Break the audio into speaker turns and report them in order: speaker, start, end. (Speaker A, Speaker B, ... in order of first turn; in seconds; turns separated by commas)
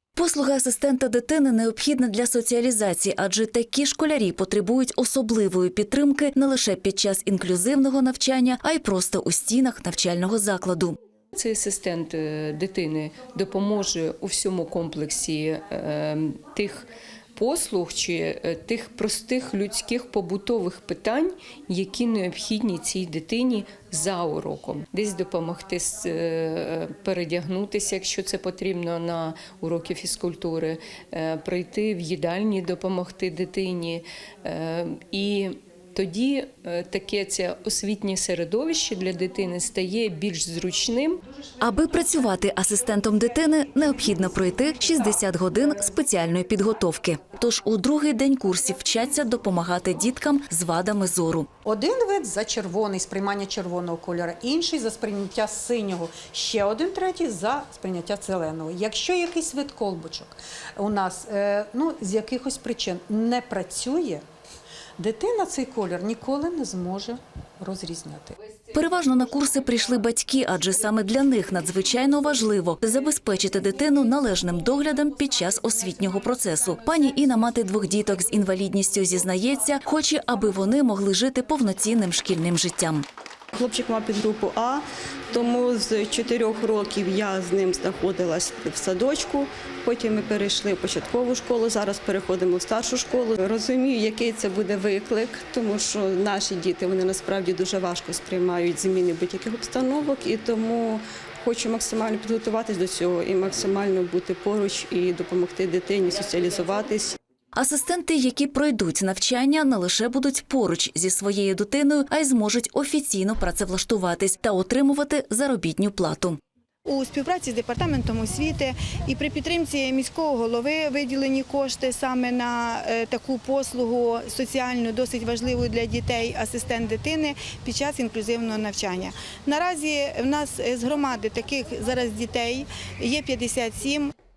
Speaker A: 0.1-10.9, Speaker B: 11.3-41.2, Speaker A: 41.6-51.5, Speaker C: 51.6-64.2, Speaker C: 65.0-68.3, Speaker A: 68.7-83.0, Speaker D: 83.5-107.2, Speaker A: 107.5-116.4, Speaker E: 116.8-134.1